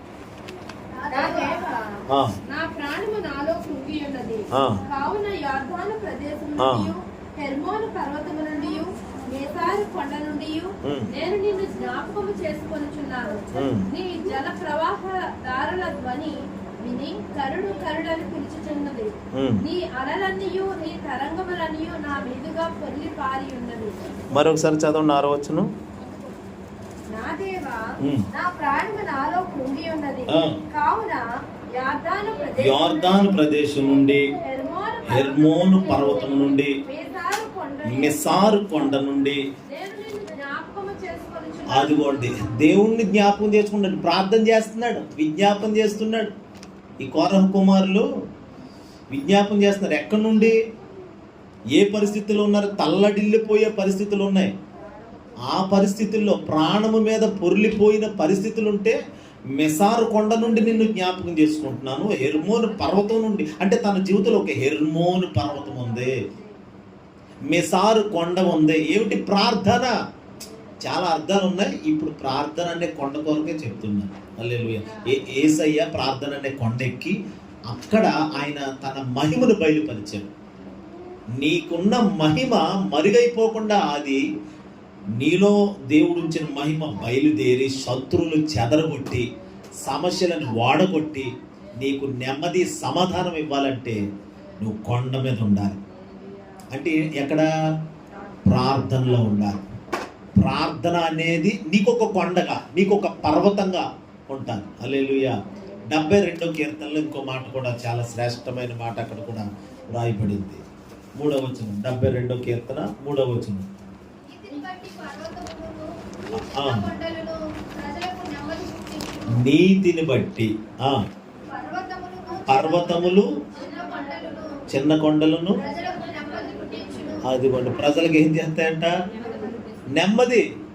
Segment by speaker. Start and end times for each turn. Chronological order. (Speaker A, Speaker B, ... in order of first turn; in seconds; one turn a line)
Speaker A: 0.9-1.8
Speaker B: 1.1-24.1
Speaker C: 2.1-2.4
Speaker C: 4.5-4.8
Speaker C: 6.6-6.9
Speaker C: 10.8-11.1
Speaker C: 13.5-13.9
Speaker C: 19.3-19.6
Speaker C: 24.3-25.7
Speaker B: 27.1-33.4
Speaker C: 28.0-28.3
Speaker C: 30.3-30.6
Speaker C: 32.6-34.3
Speaker B: 34.4-38.8
Speaker C: 35.0-36.8
Speaker C: 37.9-39.4
Speaker B: 39.7-42.6
Speaker C: 41.6-46.3
Speaker C: 47.0-48.1
Speaker C: 49.1-50.6
Speaker C: 51.7-54.5
Speaker C: 55.4-59.0
Speaker C: 59.6-66.2
Speaker C: 67.5-69.9
Speaker C: 70.8-77.1
Speaker C: 77.7-80.3
Speaker C: 81.4-84.2
Speaker C: 85.2-89.3
Speaker C: 89.8-94.0
Speaker C: 94.6-95.8
Speaker C: 96.7-97.5
Speaker C: 98.5-99.7
Speaker C: 100.4-110.6
Speaker C: 111.2-113.7
Speaker A: 114.2-119.5
Speaker C: 116.3-116.9
Speaker C: 119.3-121.0
Speaker A: 121.5-124.6
Speaker C: 122.5-123.3
Speaker C: 124.7-125.6
Speaker A: 125.6-127.2
Speaker C: 127.2-128.9
Speaker B: 129.1-129.8
Speaker C: 129.9-130.4